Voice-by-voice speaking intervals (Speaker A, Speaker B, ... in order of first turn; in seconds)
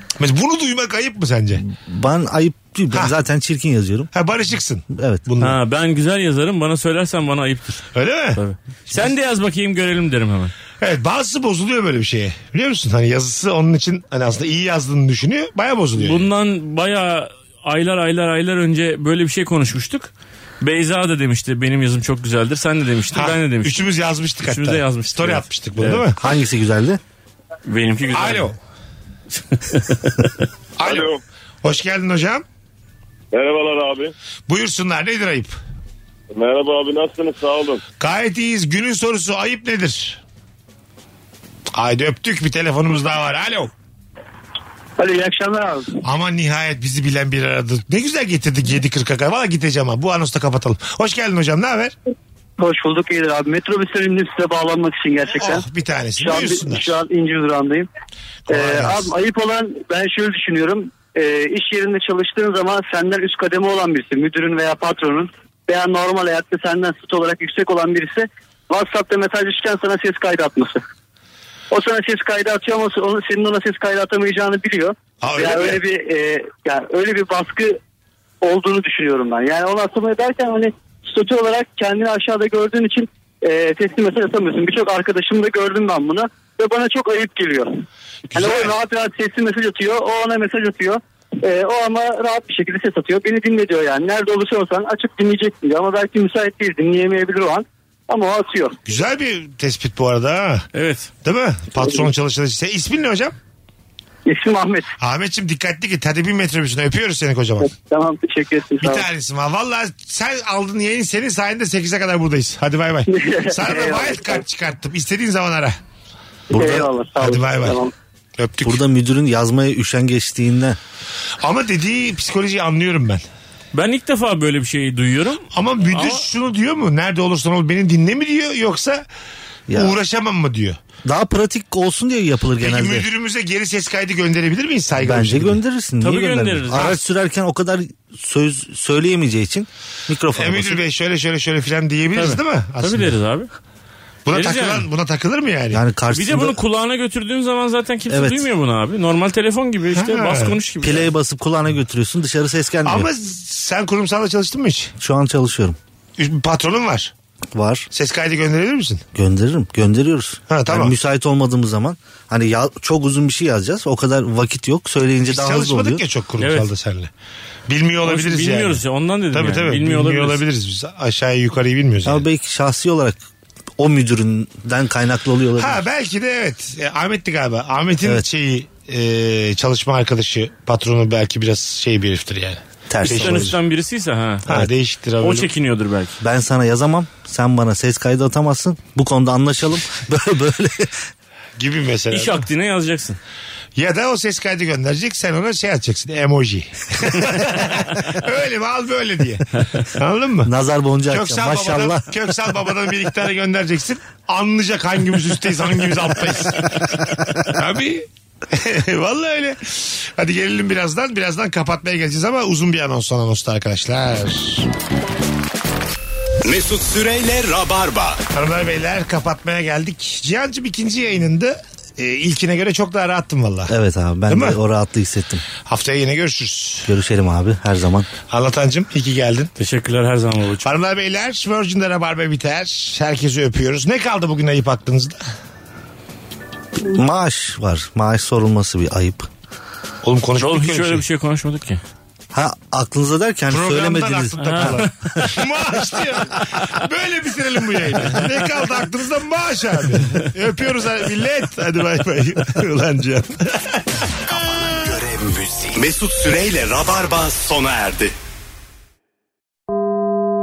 Speaker A: 0.2-1.6, 4.1-5.6, 7.9-8.4, 10.8-16.3, 23.1-26.2, 28.1-28.6, 30.8-32.4, 34.5-35.5, 38.0-40.2, 41.7-43.7, 46.0-51.9, 55.3-56.9, 58.5-59.1, 75.2-75.8, 88.3-88.7, 98.9-100.7, 101.2-103.4, 105.0-107.7, 108.8-115.8, 116.6-117.8, 118.4-118.8, 121.4-123.2, 125.5-129.0, 129.7-130.8, 132.6-135.6, 140.3-143.2, 144.2-145.8, 149.9-150.6, 152.8-154.9, 156.2-157.1, 157.9-159.0, 160.5-160.9, 165.3-167.1, 167.7-168.8, 169.3-172.2, 175.6-183.5, 184.4-185.5, 191.6-192.4, 193.8-199.4, 199.9-200.5, 201.1-207.0, 207.5-214.7, 218.3-223.7, 224.3-224.6, 225.7-226.9, 228.3-229.5, 230.6-235.2, 240.0-241.0, 243.5-253.8
Speaker B: 1.6-4.1, 4.9-5.2, 26.2-27.0, 116.5-116.8, 118.6-120.8, 129.7-130.0, 131.0-133.1, 135.0-140.8, 145.7-146.6, 148.1-148.4, 150.8-153.1, 155.0-155.8, 157.5-157.9, 159.1-166.0, 172.0-173.2, 173.8-175.8, 182.9-183.6, 186.2-191.0, 200.4-202.1, 223.7-225.4, 226.9-228.1, 236.8-239.3, 242.3-244.9
Speaker C: 5.4-10.5, 16.0-23.8, 24.4-26.0, 27.6-28.4, 29.7-30.3, 100.7-101.1, 123.7-126.2, 136.0-137.0, 142.1-143.5, 144.3-144.9, 146.1-151.1, 166.4-166.7, 168.0-170.4, 183.0-184.5, 185.2-186.2, 192.1-193.2, 229.6-230.7, 240.4-241.8, 244.4-245.2
Speaker D: 30.8-31.2, 33.3-34.1, 36.3-37.8
Speaker E: 45.0-46.0, 52.6-55.6, 56.2-57.9, 58.5-70.8, 71.7-77.8, 78.4-98.8, 104.2-104.9, 107.6-109.0, 113.1-114.4, 116.5-117.9
Speaker F: 216.4-218.2, 254.3-258.1